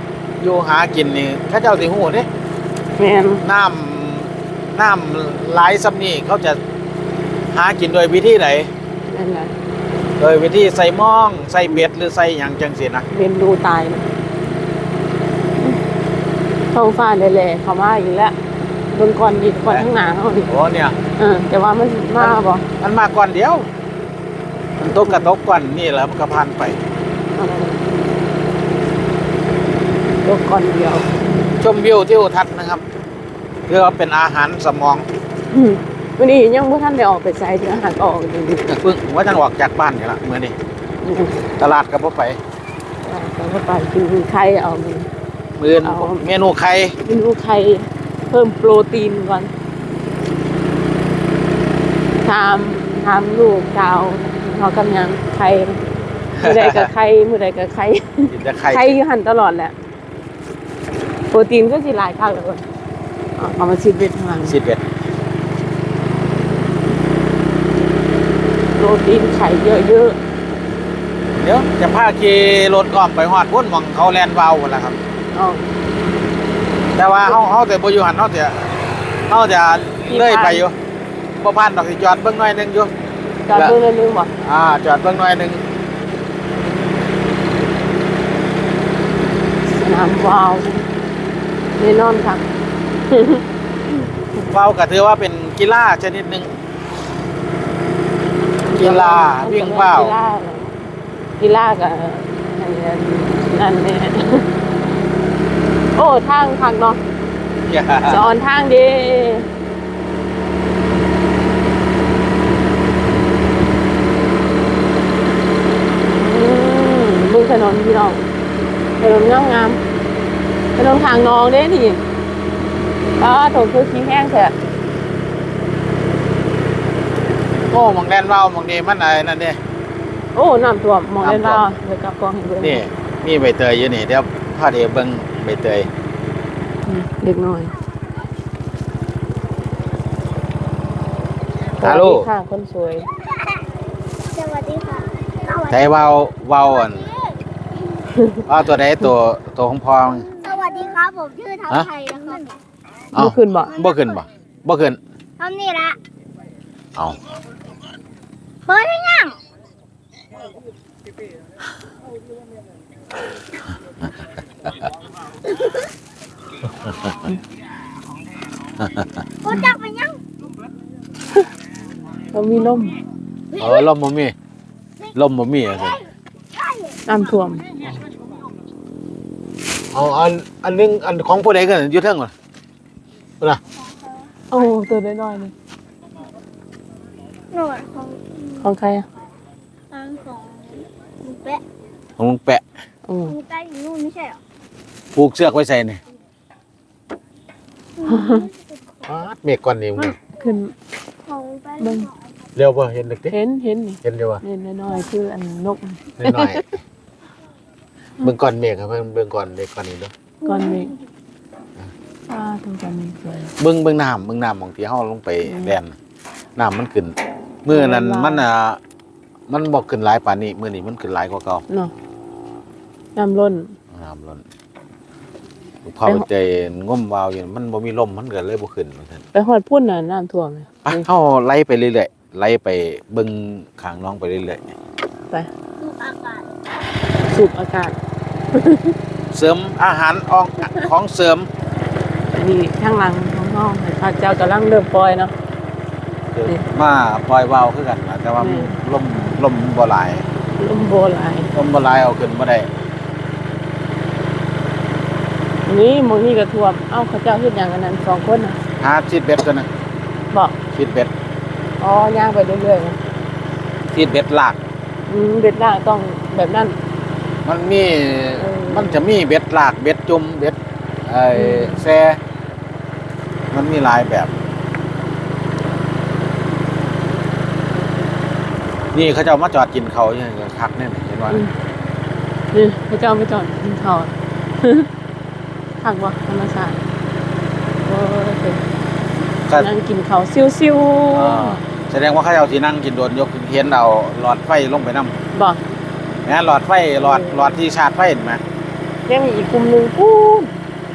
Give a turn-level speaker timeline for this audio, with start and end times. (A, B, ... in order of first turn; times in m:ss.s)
0:00.4-0:02.3 A
0:03.0-0:03.4 B
0:03.4-0:06.6 A
0:07.5-0:08.7 A
0:09.1-0:09.5 B
0:10.2-0:13.0 A
0:13.1-0:14.1 B
0:16.7-0:18.4 B
0:18.9-0:20.5 B
0:20.5-0:21.0 A
0:21.2-0:22.6 B
0:22.2-0:23.7 A
0:24.8-0:26.8 A
0:24.9-0:25.3 B
0:27.4-0:27.8 B
0:30.2-0:31.1 B
0:31.6-0:32.8 A
0:33.7-0:35.0 A
0:35.5-0:38.7 B
0:38.7-0:40.5 A
0:41.0-0:41.4 B
0:41.6-0:42.4 A
0:43.0-0:45.1 B
0:45.6-0:47.0 A
0:45.7-0:46.2 B
0:47.0-0:49.5 B
0:52.2-0:55.8 B
0:56.4-0:56.9 A
0:56.4-0:59.7 B
0:58.3-0:59.0 A
1:01.3-1:02.6 B
1:03.4-1:04.6 B
1:04.5-1:04.8 A
1:08.8-1:10.2 B
1:11.4-1:15.0 A
1:15.3-1:15.6 B
1:16.9-1:20.7 A
1:20.0-1:20.6 B
1:21.4-1:22.9 A
1:23.5-1:24.3 B
1:24.4-1:25.6 A
1:29.6-1:30.8 B
1:31.8-1:32.4 B
1:33.1-1:33.4 B
1:34.4-1:36.5 A
1:38.7-1:40.7 B
1:38.8-1:40.1 A
1:41.4-1:44.4 B
1:45.9-1:47.0 B
1:47.6-1:48.3 A
1:48.0-1:49.5 B
1:56.0-1:58.2 B
1:59.0-1:59.8 B
2:00.8-2:02.0 B
2:03.2-2:04.5 B
2:07.7-2:09.6 A
2:10.3-2:12.8 B
2:11.2-2:11.6 A
2:12.6-2:15.9 A
2:16.8-2:17.7 B
2:21.8-2:23.1 B
2:21.8-2:22.3 A
2:24.3-2:25.6 C
2:25.7-2:27.1 A
2:28.1-2:28.4 B
2:28.5-2:30.3 A
2:30.3-2:32.5 C
2:33.1-2:35.0 A
2:33.2-2:33.7 B
2:35.4-2:36.0 C
2:38.7-2:39.4 C
2:48.8-2:49.1 A
2:49.4-2:50.2 C
2:52.3-2:53.0 B
2:53.5-2:54.3 A
2:55.1-2:56.0 A
2:57.0-2:57.7 B
2:59.9-3:02.3 A
3:04.5-3:05.5 B
3:07.5-3:08.3 C
3:08.6-3:09.0 B
3:09.9-3:11.6 C
3:12.2-3:12.6 A
3:13.1-3:13.4 B
3:13.4-3:14.4 C
3:15.1-3:16.0 A
3:18.0-3:18.5 B
3:19.0-3:20.2 A
3:20.0-3:20.7 B
3:21.3-3:21.9 C
3:21.8-3:22.1 B
3:22.5-3:23.4 A
3:23.3-3:26.8 B
3:24.0-3:24.4 A
3:26.2-3:26.6 A
3:28.2-3:30.1 A
3:30.4-3:30.9 B
3:32.3-3:33.5 B
3:33.6-3:36.0 A
3:35.4-3:35.8 B
3:36.6-3:38.8 A
3:37.7-3:38.4 B
3:39.5-3:41.6 A
3:43.2-3:43.7 B
3:43.9-3:44.4 A
3:45.8-3:49.2 A
3:49.3-3:51.0 B
3:50.8-3:54.7 A
3:55.8-3:56.4 C
3:57.3-3:58.0 B
3:58.5-3:59.0 B
3:59.3-4:01.5 A
4:02.3-4:05.3 B
4:06.3-4:10.2 A
4:08.4-4:08.7 B
4:10.6-4:11.5 B
4:11.5-4:12.7 A
4:15.6-4:18.6 B
4:18.8-4:19.7 A
4:20.3-4:20.6 B
4:20.7-4:21.1 A
4:21.8-4:23.0 B
4:23.9-4:24.6 A
4:25.1-4:26.8 B
4:27.4-4:32.2 A
4:28.4-4:29.0 B
4:31.3-4:31.8 B
4:33.5-4:34.3 A
4:38.9-4:41.4 A
4:42.5-4:44.9 B
4:45.8-4:46.8 B
4:47.8-4:48.6 B
4:49.5-4:51.6 B
4:51.1-4:55.1 A
4:55.3-4:55.6 B
4:56.2-4:58.4 A
4:57.0-4:57.5 B
4:59.1-5:00.5 B